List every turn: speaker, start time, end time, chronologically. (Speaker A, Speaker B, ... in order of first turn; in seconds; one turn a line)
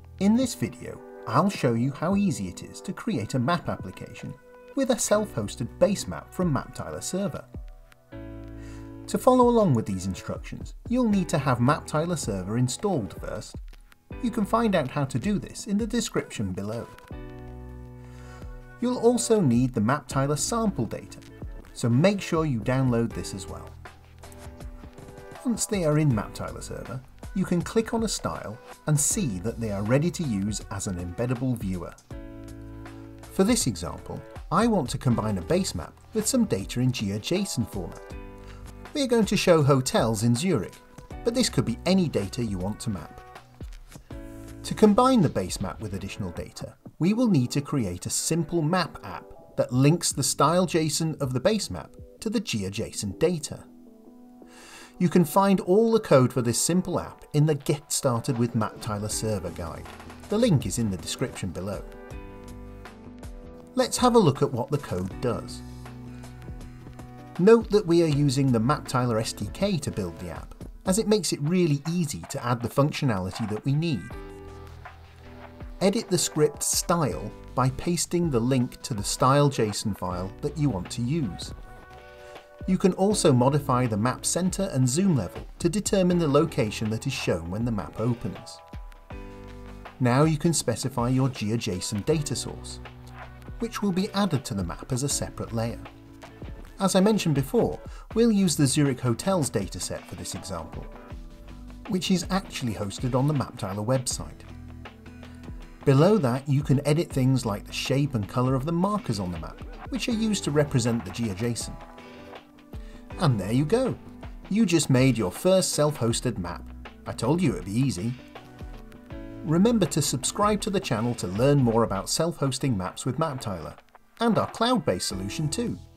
Speaker A: 0.2-7.5
Speaker A: 9.1-13.6
Speaker A: 14.2-17.0
Speaker A: 18.8-23.8
Speaker A: 25.4-32.0
Speaker A: 33.3-38.2
Speaker A: 38.9-43.2
Speaker A: 44.6-53.7
Speaker A: 55.0-61.9
Speaker A: 63.7-65.6
Speaker A: 67.4-74.2
Speaker A: 75.8-81.5
Speaker A: 82.7-88.6
Speaker A: 90.0-92.8
Speaker A: 93.6-95.9
Speaker A: 96.8-100.9
Speaker A: 101.9-104.5
Speaker A: 105.8-111.8
Speaker A: 113.2-118.2
Speaker A: 119.4-125.8